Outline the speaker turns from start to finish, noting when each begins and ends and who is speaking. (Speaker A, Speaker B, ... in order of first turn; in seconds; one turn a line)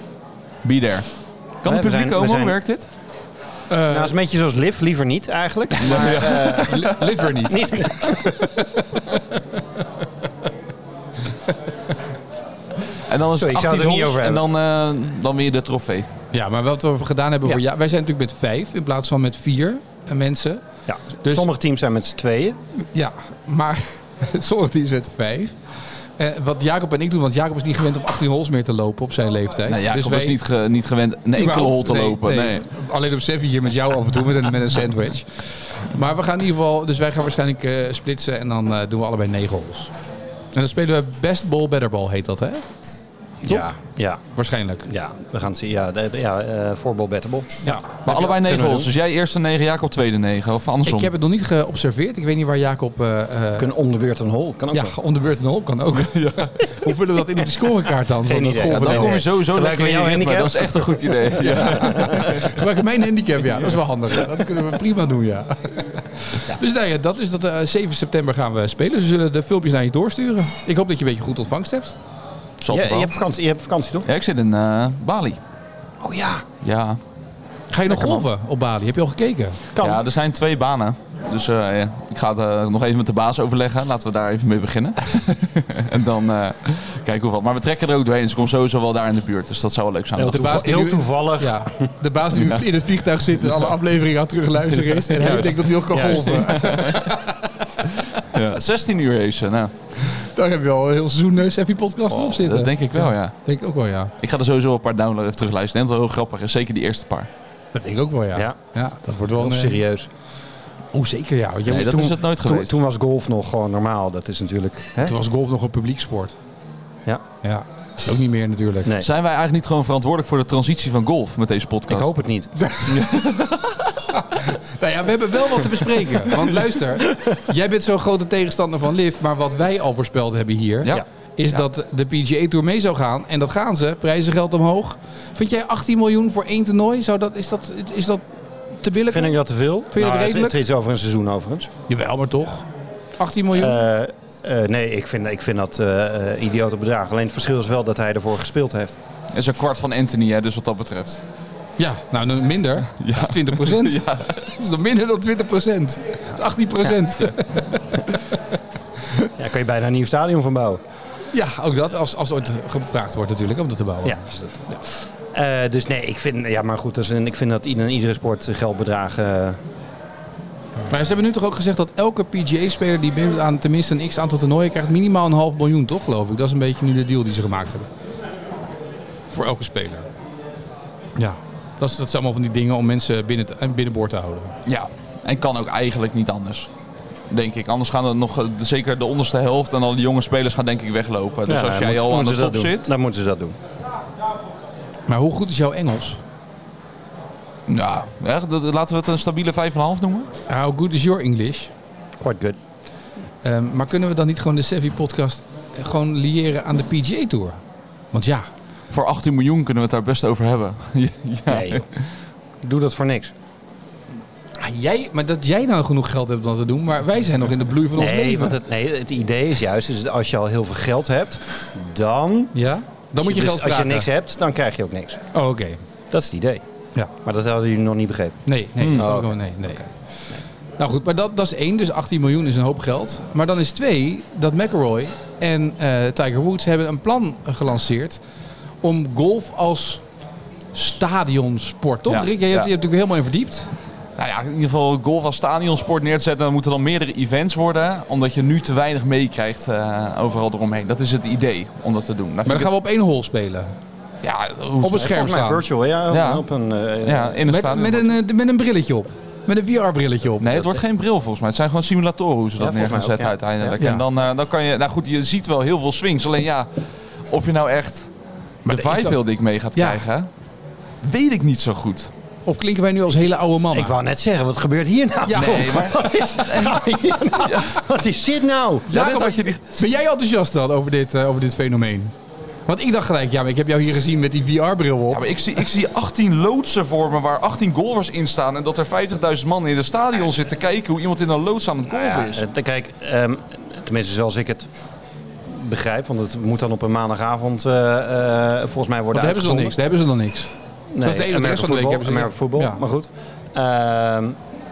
Speaker A: 0.6-1.1
Speaker A: 1.6-2.9
Speaker B: 1.6-2.6
Speaker C: 3.7-4.1
Speaker B: 3.9-6.9
Speaker C: 5.8-9.2
Speaker A: 5.8-7.2
Speaker B: 7.4-8.4
Speaker A: 13.1-16.1
Speaker B: 13.4-14.4
Speaker C: 16.3-20.6
Speaker B: 20.9-22.6
Speaker C: 22.8-25.6
Speaker C: 26.2-30.4
Speaker A: 29.7-32.6
Speaker C: 31.3-39.9
Speaker C: 40.5-42.6
Speaker B: 43.4-44.2
Speaker C: 43.5-43.8
Speaker C: 44.3-44.9
Speaker B: 44.9-48.9
Speaker A: 48.0-51.1
Speaker C: 50.9-53.7
Speaker B: 53.6-55.0
Speaker C: 54.7-59.2
Speaker A: 56.0-56.5
Speaker B: 58.2-62.4
Speaker A: 58.7-62.5
Speaker C: 61.6-72.0
Speaker A: 72.6-73.1
Speaker B: 72.7-74.1
Speaker A: 74.1-75.4
Speaker B: 76.0-76.5
Speaker A: 76.6-77.0
Speaker C: 77.7-79.6
Speaker B: 77.9-78.2
Speaker B: 79.8-80.0
Speaker A: 79.8-90.5
Speaker B: 90.2-91.9
Speaker C: 90.2-97.9
Speaker A: 95.2-95.5
Speaker B: 95.2-96.9
Speaker A: 96.0-97.1
Speaker A: 98.2-99.7
Speaker C: 100.0-104.1
Speaker A: 102.2-103.3
Speaker A: 104.2-107.3
Speaker C: 107.7-109.8
Speaker B: 109.4-110.1
Speaker C: 110.9-112.1
Speaker A: 111.7-112.8
Speaker B: 111.8-115.1
Speaker C: 115.0-116.4
Speaker C: 117.4-118.9
Speaker A: 119.0-122.1
Speaker B: 121.9-122.7
Speaker C: 122.6-123.4
Speaker C: 124.1-138.2
Speaker A: 130.8-131.6
Speaker C: 138.8-139.4
Speaker B: 139.1-141.7
Speaker C: 139.9-140.6
Speaker C: 141.9-142.7
Speaker C: 143.2-143.8
Speaker B: 143.5-149.0
Speaker A: 149.3-151.2
Speaker C: 151.8-158.1
Speaker A: 152.9-154.3
Speaker B: 159.4-160.8
Speaker C: 161.3-164.2
Speaker B: 164.1-169.6
Speaker C: 170.9-177.9
Speaker C: 179.3-180.1
Speaker C: 181.2-184.6
Speaker A: 184.7-186.7
Speaker A: 187.3-192.9
Speaker B: 191.5-193.6
Speaker C: 195.1-196.2
Speaker A: 197.7-200.3
Speaker C: 200.5-201.7
Speaker B: 202.2-202.6
Speaker C: 203.4-207.6
Speaker C: 208.1-208.5
Speaker A: 208.9-212.0
Speaker B: 211.5-211.9
Speaker B: 212.6-213.3
Speaker C: 214.6-218.6
Speaker B: 218.0-222.5
Speaker C: 222.6-224.1
Speaker B: 223.2-225.2
Speaker C: 225.3-225.8
Speaker B: 226.1-226.6
Speaker B: 227.2-228.4
Speaker C: 228.5-229.9
Speaker A: 228.8-229.1
Speaker B: 229.0-229.3
Speaker C: 230.8-238.2
Speaker C: 238.8-240.0
Speaker C: 240.7-243.7
Speaker A: 242.1-242.7
Speaker A: 244.2-252.7
Speaker C: 252.5-253.7
Speaker A: 254.2-255.1
Speaker C: 254.8-255.6
Speaker B: 255.0-257.4
Speaker A: 256.1-256.4
Speaker A: 257.0-258.1
Speaker C: 257.5-260.8
Speaker A: 260.4-266.7
Speaker B: 262.6-263.7
Speaker C: 263.8-264.0
Speaker A: 267.3-268.1
Speaker A: 268.6-270.3
Speaker C: 268.7-269.2
Speaker C: 269.8-270.0
Speaker A: 271.0-272.1
Speaker C: 272.5-274.0
Speaker B: 273.7-278.9
Speaker C: 275.3-275.6
Speaker A: 275.3-277.8
Speaker A: 278.9-279.6
Speaker C: 278.9-282.1
Speaker C: 282.7-285.2
Speaker A: 285.1-292.4
Speaker B: 291.9-294.7
Speaker B: 295.5-299.8
Speaker C: 299.1-300.5
Speaker B: 300.9-304.4
Speaker C: 301.0-302.8